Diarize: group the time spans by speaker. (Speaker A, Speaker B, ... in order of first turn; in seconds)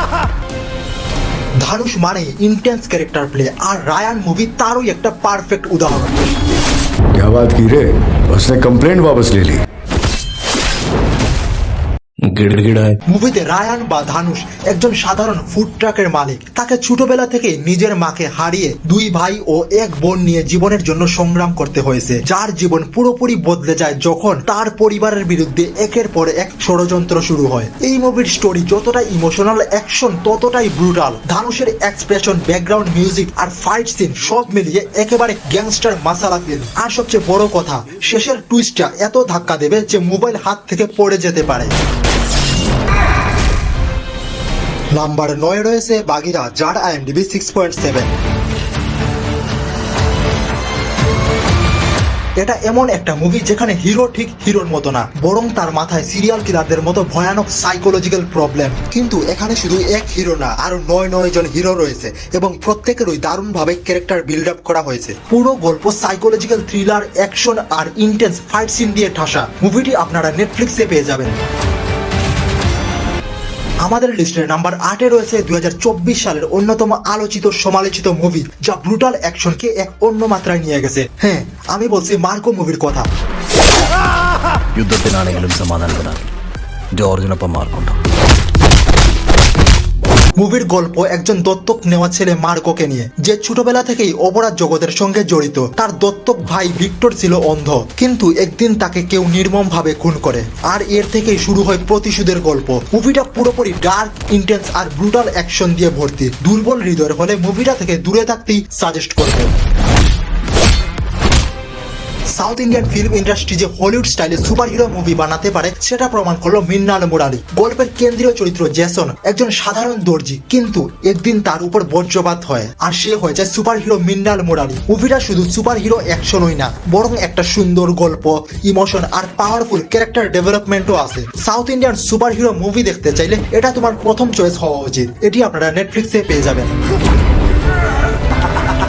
Speaker A: 1.6-6.2, 13.1-41.7, 44.9-48.1, 52.4-71.3, 73.8-83.1, 90.3-109.5, 112.3-136.7
Speaker B: 7.1-9.6
Speaker C: 12.3-13.0, 84.8-86.3, 86.9-88.0